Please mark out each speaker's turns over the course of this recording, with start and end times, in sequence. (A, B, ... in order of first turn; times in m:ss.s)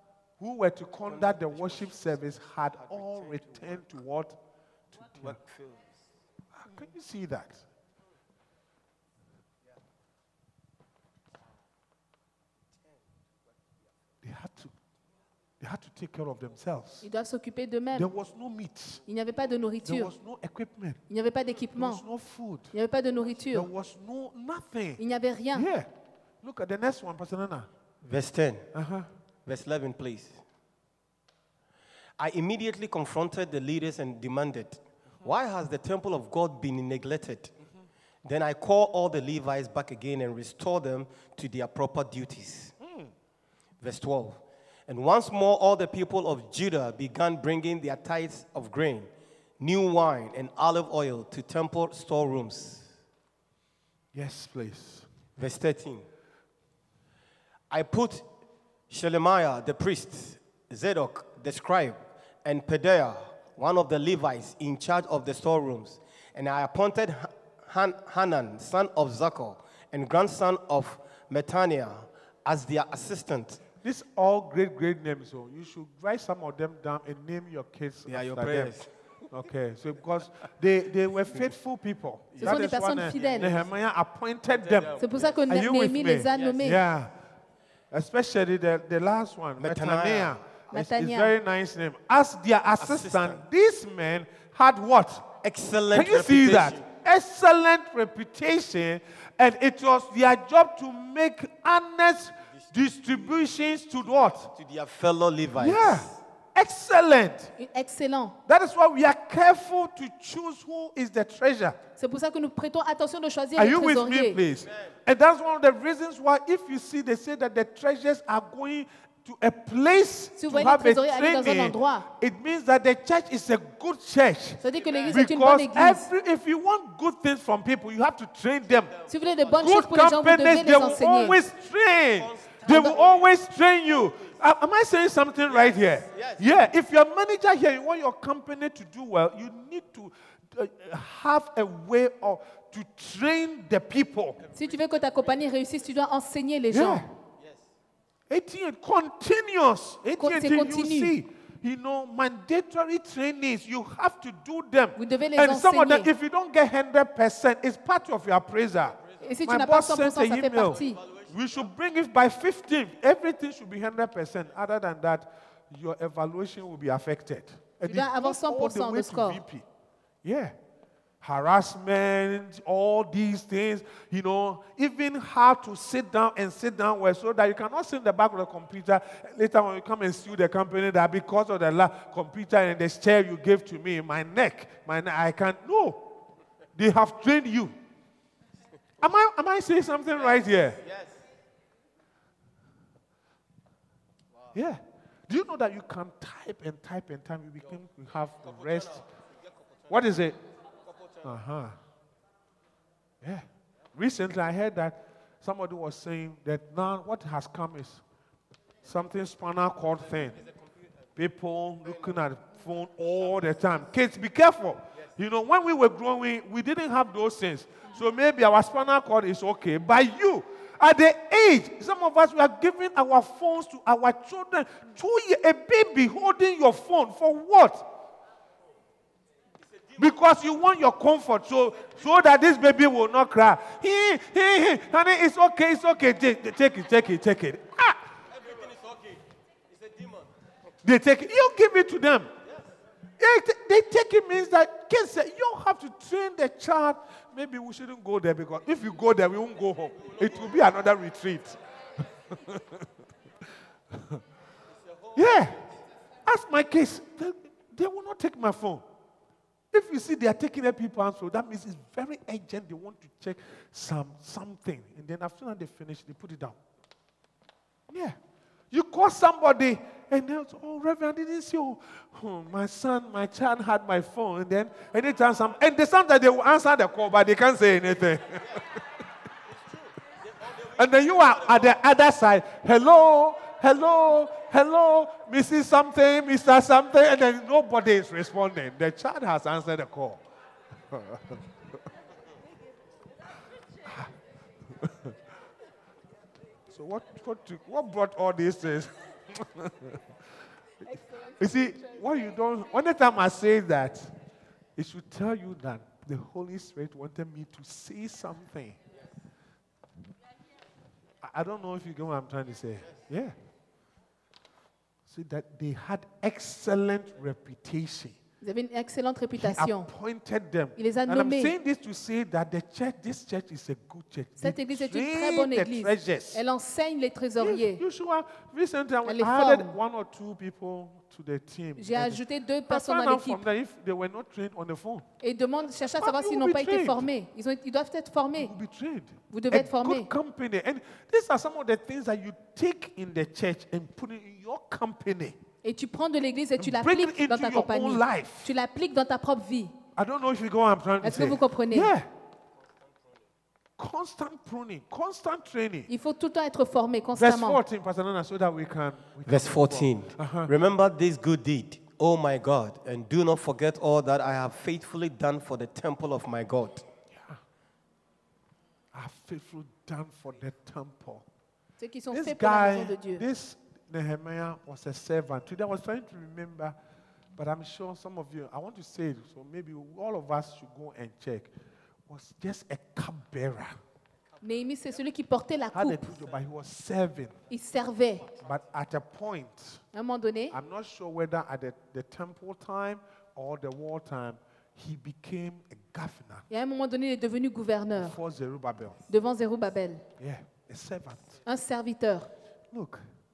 0:00.4-0:04.4 A
0:01.1-0:03.8 B
0:04.9-0:05.4 A
0:05.2-0:05.9 B
0:06.6-0:07.6 A
0:14.2-0:14.7 A
0:15.6-0:17.0 A
0:17.0-0:18.1 C
0:17.9-0:19.0 A
0:19.0-0:20.1 C
0:19.8-0:21.0 A
0:21.1-0:22.0 C
0:21.8-0:22.7 A
0:22.7-0:23.7 C
0:23.5-0:25.0 A
0:25.0-0:25.7 C
0:25.5-0:25.9 A
0:26.4-0:27.7 A
0:28.0-0:28.6 B
0:28.7-0:29.1 A
0:29.4-0:30.4 B
0:32.2-0:37.5 B
0:38.2-0:42.7 B
0:42.8-0:43.1 A
0:43.8-0:52.9 B
0:54.1-0:55.1 A
0:55.4-0:56.0 B
0:57.7-0:58.2 B
0:58.9-1:13.6 B
1:13.8-1:18.7 A
1:18.1-1:18.9 B
1:19.3-1:27.1 A
1:22.3-1:22.7 B
1:22.4-1:23.5 C
1:24.6-1:24.9 B
1:25.0-1:26.8 C
1:27.9-1:35.4 A
1:29.6-1:30.4 B
1:30.7-1:31.3 C
1:32.8-1:33.4 B
1:35.4-1:36.8 B
1:35.9-1:44.5 A
1:44.4-1:46.2 B
1:45.6-1:47.5 A
1:47.6-1:48.4 C
1:48.5-1:51.8 A
1:52.0-1:54.4 C
1:53.6-2:09.0 A
2:00.4-2:02.0 C
2:04.6-2:06.1 C
2:09.1-2:11.4 C
2:09.6-2:24.5 A
2:12.2-2:13.2 B
2:12.7-2:13.0 C
2:16.1-2:16.4 B
2:24.5-2:27.0 C
2:26.7-2:27.1 A
2:28.3-2:49.6 A
2:30.2-2:31.1 C
2:35.0-2:36.1 C
2:39.2-2:41.0 C
2:47.8-2:49.4 C
2:50.2-2:50.5 A
2:51.2-3:06.0 A
3:06.8-3:07.7 A
3:09.0-3:10.8 A
3:14.5-3:19.0 A
3:19.9-3:20.4 A
3:21.2-3:21.8 A
3:23.2-3:28.0 A
3:28.8-3:30.4 A
3:31.2-3:47.9 A
3:50.0-3:58.0 A
4:00.8-4:02.3 A
4:03.2-4:11.6 A
4:12.3-4:12.6 A
4:13.9-4:14.2 A
4:15.1-4:15.6 A
4:16.2-4:18.8 A
4:19.7-4:26.6 A
4:27.9-4:28.2 A
4:28.7-4:38.6 A
4:40.6-4:50.2 A
4:50.9-4:51.4 A
4:54.8-4:55.1 A
4:56.7-5:00.0 A
5:00.9-5:04.1 A
5:00.9-5:01.2 C
5:04.8-5:08.8 A
5:11.2-5:13.3 A
5:15.1-5:18.2 A
5:18.4-5:19.9 C
5:19.4-5:26.4 A
5:20.8-5:21.5 C
5:24.4-5:27.8 C
5:27.4-5:35.0 A
5:29.0-5:29.7 C
5:31.8-5:33.4 C
5:35.2-5:38.5 C
5:36.0-5:37.1 A
5:38.4-5:45.4 A
5:39.3-5:40.1 C
5:45.6-5:49.7 C
5:46.6-5:48.5 A
5:50.0-5:52.1 A
5:51.0-5:51.9 C
5:53.8-5:55.9 A
5:55.9-5:57.6 C
5:57.1-6:00.5 A
5:59.2-6:06.8 B
6:08.9-6:11.2 A
6:11.8-6:13.2 C
6:12.1-6:16.7 A
6:17.4-6:21.5 A
6:22.1-6:23.8 A
6:24.4-6:26.1 C
6:25.7-6:27.4 A
6:27.5-6:28.3 C
6:28.3-6:29.8 A
6:29.9-6:30.5 C
6:30.5-6:36.4 A
6:36.5-6:38.2 C
6:38.0-6:39.0 A
6:39.1-6:40.0 C
6:40.2-6:41.4 A
6:41.4-6:42.3 C
6:42.7-6:43.0 A